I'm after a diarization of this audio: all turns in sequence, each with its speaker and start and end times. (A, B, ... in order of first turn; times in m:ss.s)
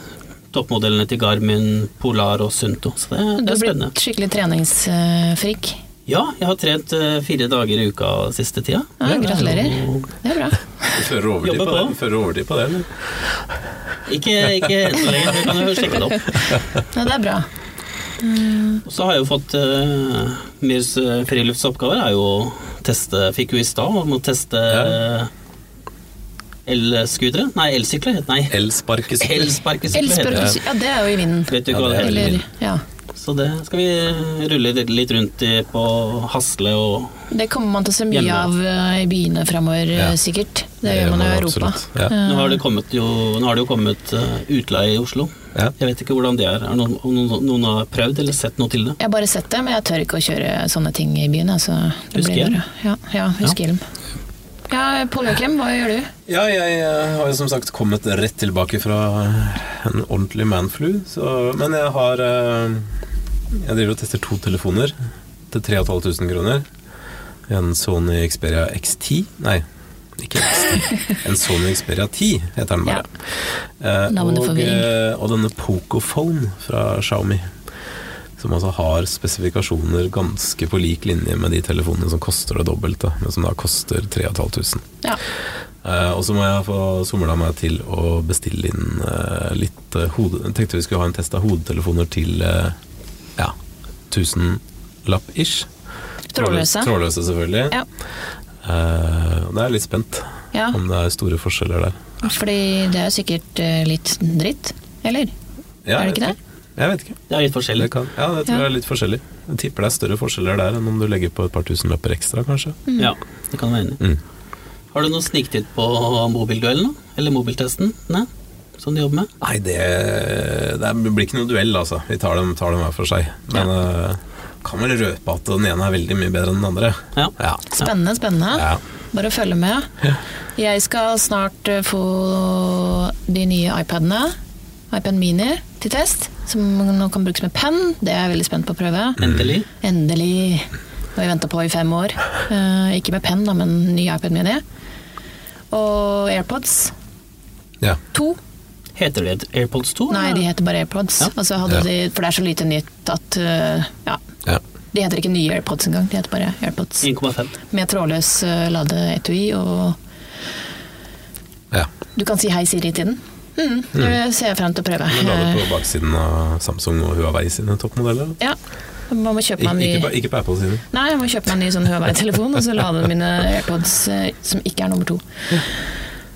0:00.5-0:03.9 A
0:03.4-0:05.8 B
0:06.1-0:10.1 A
0:09.0-0:11.0 B
0:09.0-0:09.4 C
0:10.9-0:13.0 C
0:11.4-0:12.0 A
0:14.1-0:16.5 A
0:16.9-0:17.5 B
0:18.2-0:18.8 B
0:18.8-0:25.3 A
0:24.7-0:25.0 C
0:26.6-0:28.6 A
0:28.5-0:29.6 C
0:29.1-0:30.6 A
0:29.9-0:32.8 B
0:30.3-0:30.6 C
0:31.5-0:32.4 A
0:31.7-0:32.4 C
0:33.1-0:37.2 A
0:37.3-0:42.6 B
0:38.1-0:38.5 A
0:40.8-0:42.1 C
0:42.2-0:49.0 A
0:49.0-0:53.8 B
0:52.1-0:52.6 A
0:54.7-0:56.1 B
0:56.3-1:02.9 C
1:03.5-1:04.9 C
1:05.5-1:06.6 C
1:07.5-1:09.6 C
1:10.2-1:13.1 C
1:13.8-1:17.5 C
1:14.1-1:14.9 B
1:18.4-1:24.8 C
1:25.8-1:32.8 C
1:34.1-1:35.7 C
1:36.3-1:36.9 B
1:36.4-1:37.8 C
1:38.6-1:42.2 C
1:40.5-1:40.8 B
1:42.2-1:45.3 B
1:45.8-1:47.2 C
1:46.0-1:46.4 B
1:47.3-1:47.9 A
1:47.8-1:52.8 C
1:52.9-1:53.1 B
1:53.0-1:54.0 A
1:54.9-1:59.3 A
1:59.4-2:07.6 C
2:07.2-2:07.9 A
2:07.7-2:09.9 B
2:08.5-2:08.8 C
2:10.6-2:14.3 B
2:14.9-2:19.2 B
2:19.2-2:19.7 A
2:19.2-2:19.4 C
2:19.8-2:24.6 B
2:25.7-2:26.9 B
2:28.1-2:28.4 B
2:29.0-2:30.4 A
2:30.1-2:34.2 B
2:34.9-2:37.1 B
2:37.0-2:37.5 A
2:37.7-2:40.0 B
2:42.2-2:45.6 B
2:45.1-2:48.4 C
2:49.1-2:50.1 B
2:49.6-2:50.8 C
2:50.9-2:55.7 B